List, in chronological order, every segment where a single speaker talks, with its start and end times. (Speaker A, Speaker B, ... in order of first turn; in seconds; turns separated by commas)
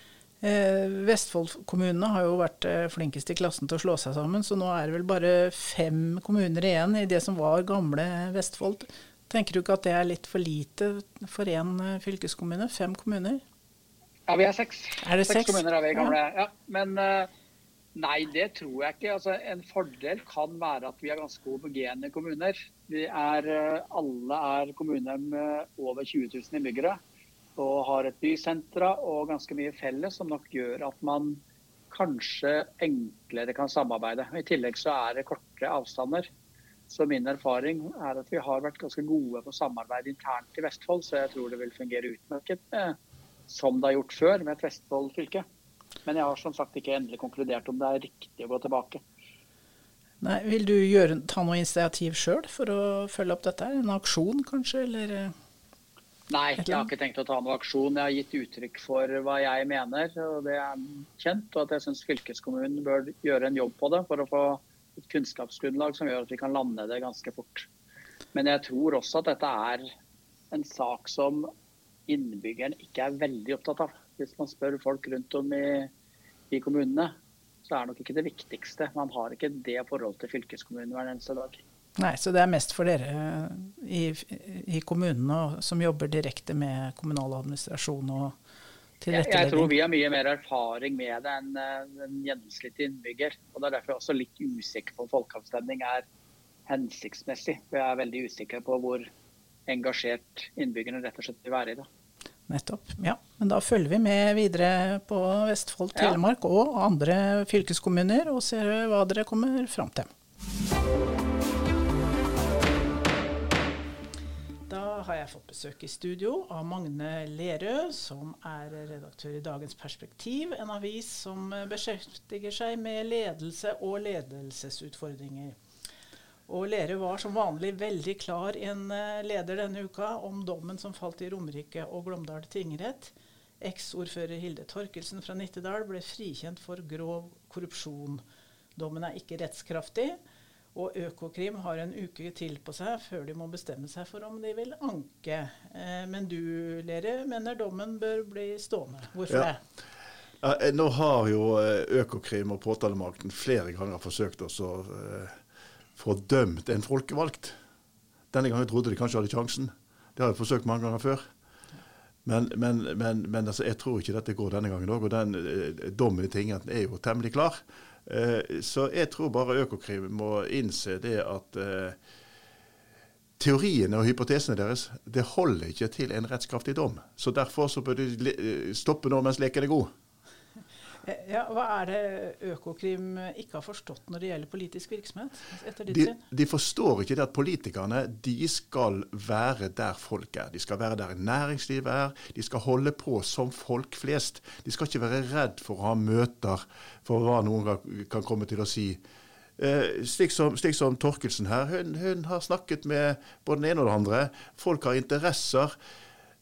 Speaker A: 0.4-13.4, Speaker B: 14.3-17.3, Speaker A: 15.0-16.1, Speaker B: 17.9-27.0, Speaker B: 27.6-36.3, Speaker B: 36.9-43.0, Speaker B: 43.5-45.4, Speaker B: 46.0-49.0, Speaker A: 50.2-55.3, Speaker B: 56.3-67.7, Speaker A: 56.6-56.9, Speaker B: 68.3-69.8, Speaker B: 70.5-71.5, Speaker B: 72.1-75.9, Speaker B: 76.5-77.1, Speaker B: 77.7-81.6, Speaker A: 82.0-88.4, Speaker A: 89.0-89.7, Speaker B: 89.1-96.0, Speaker B: 96.7-99.0, Speaker B: 99.7-101.9, Speaker A: 102.5-110.1, Speaker A: 114.7-125.5, Speaker A: 126.5-138.2, Speaker A: 138.8-140.2, Speaker A: 140.7-149.6, Speaker C: 150.4-155.3, Speaker C: 156.0-157.6, Speaker C: 158.3-161.2, Speaker C: 162.2-172.0, Speaker C: 173.4-179.9, Speaker A: 181.0-186.2, Speaker C: 185.9-199.0, Speaker C: 199.6-205.7